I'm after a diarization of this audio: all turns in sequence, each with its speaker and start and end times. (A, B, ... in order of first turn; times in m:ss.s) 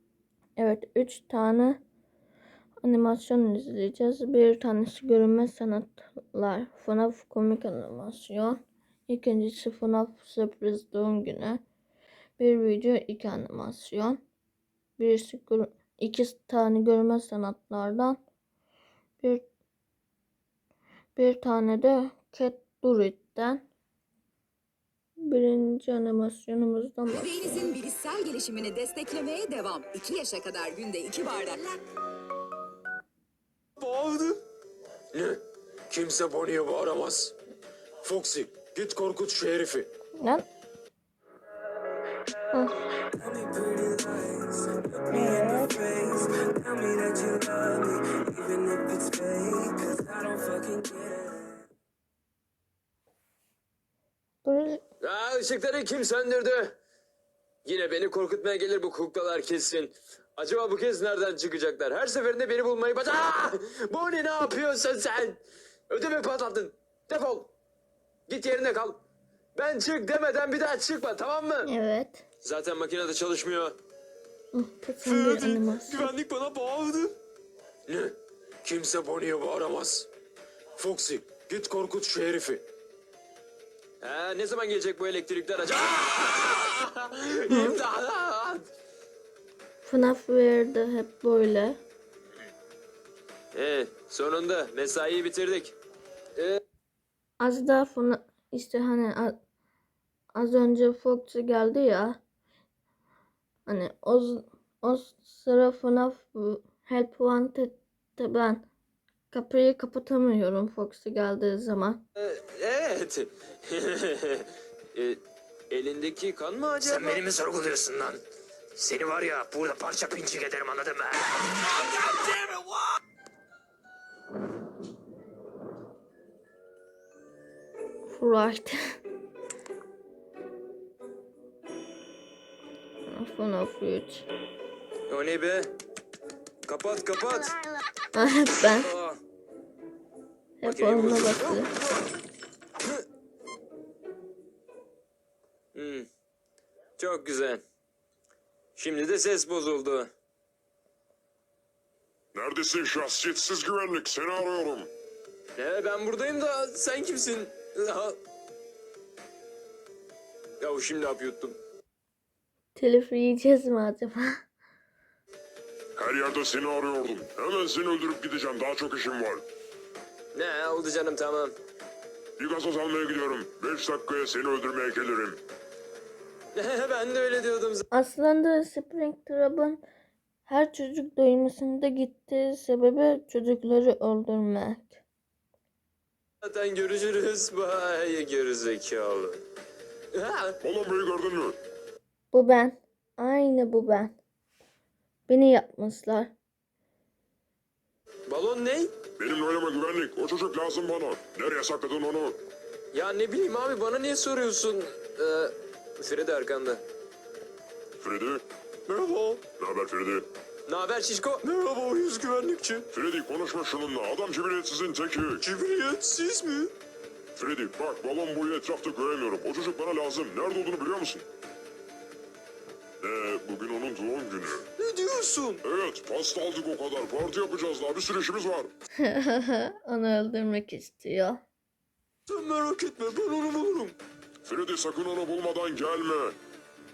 0:00.6-0:01.8 A
0:02.8-0:11.6 A
0:12.4-0:14.2 A
0:15.0-0:18.2 A
0:21.2-0:23.6 A
0:25.2-0:27.7 A
0:27.1-0:31.8 B
0:33.8-0:34.4 C
0:35.1-0:35.4 C
0:35.9-0:37.3 C
0:38.0-0:39.9 C
0:40.2-0:40.4 A
0:43.2-0:44.3 C
0:45.1-0:45.8 A
0:45.1-0:51.2 C
0:54.4-0:54.8 A
0:55.0-0:56.8 C
0:57.6-1:07.5 C
1:08.3-1:09.0 C
1:09.5-1:11.7 C
1:11.6-1:12.2 A
1:12.4-1:13.8 C
1:14.5-1:16.1 A
1:15.0-1:17.1 C
1:17.9-1:20.1 C
1:20.8-1:22.6 C
1:24.0-1:28.6 C
1:27.5-1:27.8 A
1:29.8-1:31.8 A
1:33.5-1:35.7 C
1:37.4-1:39.4 A
1:40.3-1:42.2 A
1:43.6-1:48.7 A
1:49.3-1:52.0 A
1:52.2-1:57.3 C
1:56.8-1:57.9 D
1:58.8-2:00.8 D
2:08.1-2:08.8 A
2:13.1-2:14.3 A
2:15.1-2:15.7 C
2:16.6-2:17.5 C
2:18.1-2:18.9 A
2:18.8-2:19.2 C
2:20.6-2:21.7 A
2:20.6-2:21.9 C
2:25.7-2:26.1 C
2:27.0-2:27.6 C
2:28.8-2:30.1 C
2:32.3-2:34.9 E
2:35.6-2:38.2 C
2:40.6-2:41.6 C
2:42.8-2:44.4 A
2:46.0-2:49.4 E
2:50.3-2:51.5 C
2:52.4-2:55.4 E
2:56.5-2:57.8 C
2:57.9-2:59.8 A
3:00.4-3:05.0 A
3:06.4-3:09.4 C
3:10.1-3:10.6 C
3:10.6-3:11.6 E
3:12.3-3:14.2 A
3:15.3-3:16.3 A
3:18.3-3:18.9 C
3:19.2-3:22.4 E
3:22.9-3:26.8 C
3:28.0-3:28.4 E
3:28.9-3:29.4 C
3:29.6-3:30.3 E
3:30.7-3:32.8 C
3:32.9-3:35.4 E
3:35.4-3:36.7 C
3:37.4-3:41.2 E
3:43.0-3:44.6 E
3:44.8-3:45.6 C
3:45.6-3:48.7 E
3:49.0-3:51.4 A
3:52.3-3:54.0 C
3:54.4-3:56.4 E